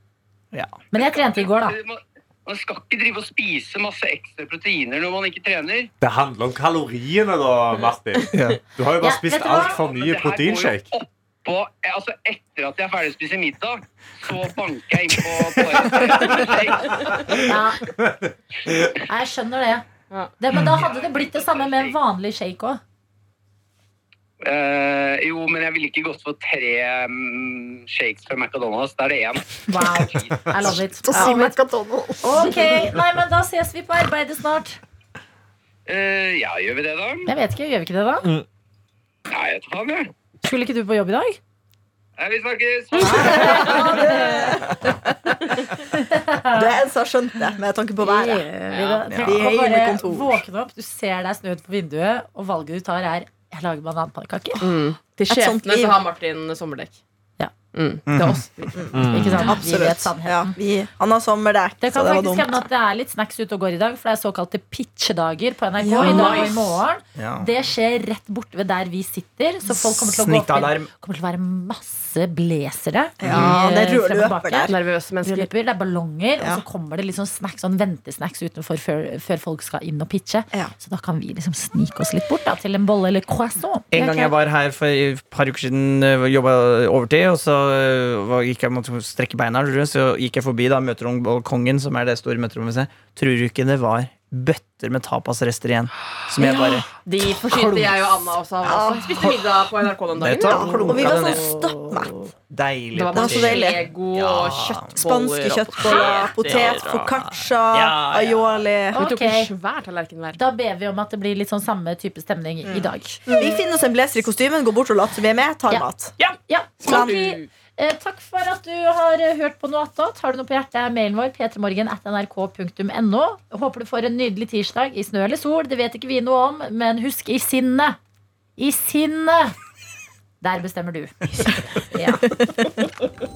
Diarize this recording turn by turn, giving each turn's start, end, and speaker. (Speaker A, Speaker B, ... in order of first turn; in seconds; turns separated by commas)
Speaker A: 0.9-1.8, Speaker B: 1.3-5.9, Speaker C: 6.0-10.9, Speaker D: 8.3-8.6, Speaker A: 9.0-9.8, Speaker B: 9.5-17.3, Speaker C: 15.9-18.9, Speaker A: 17.4-17.9, Speaker A: 19.1-19.9, Speaker A: 20.4-22.8, Speaker B: 20.7-22.0, Speaker B: 24.4-30.4, Speaker A: 29.7-31.6, Speaker E: 31.1-32.9, Speaker A: 32.2-34.8, Speaker B: 35.9-37.3, Speaker A: 37.3-38.3, Speaker B: 39.3-40.1, Speaker A: 40.4-41.4, Speaker B: 42.2-44.2, Speaker A: 43.0-44.7, Speaker E: 43.6-45.1, Speaker A: 45.8-46.7, Speaker E: 46.5-48.5, Speaker A: 48.0-54.6, Speaker F: 48.7-49.1, Speaker E: 49.1-50.4, Speaker F: 54.6-57.0, Speaker E: 55.3-56.0, Speaker F: 57.7-58.9, Speaker D: 58.1-58.4, Speaker E: 58.8-62.6, Speaker C: 58.9-59.5, Speaker A: 59.1-60.5, Speaker A: 61.8-84.3, Speaker F: 65.8-66.7, Speaker E: 66.0-66.4, Speaker D: 67.2-67.5, Speaker D: 69.7-70.9, Speaker E: 73.2-74.8, Speaker D: 73.3-73.5, Speaker F: 73.3-73.5, Speaker F: 74.7-75.5, Speaker D: 83.9-98.0, Speaker F: 96.4-101.4, Speaker E: 98.7-99.3, Speaker D: 100.2-101.4, Speaker E: 100.4-102.1, Speaker D: 102.5-104.9, Speaker F: 102.9-107.1, Speaker E: 103.1-103.8, Speaker E: 105.0-109.0, Speaker D: 106.5-108.7, Speaker A: 108.9-109.5, Speaker F: 108.9-110.4, Speaker A: 110.3-113.3, Speaker F: 113.3-113.6, Speaker E: 113.4-116.1, Speaker A: 116.5-128.0, Speaker F: 116.8-117.5, Speaker E: 116.9-117.2, Speaker A: 128.6-129.6, Speaker A: 130.4-131.3, Speaker A: 131.9-132.3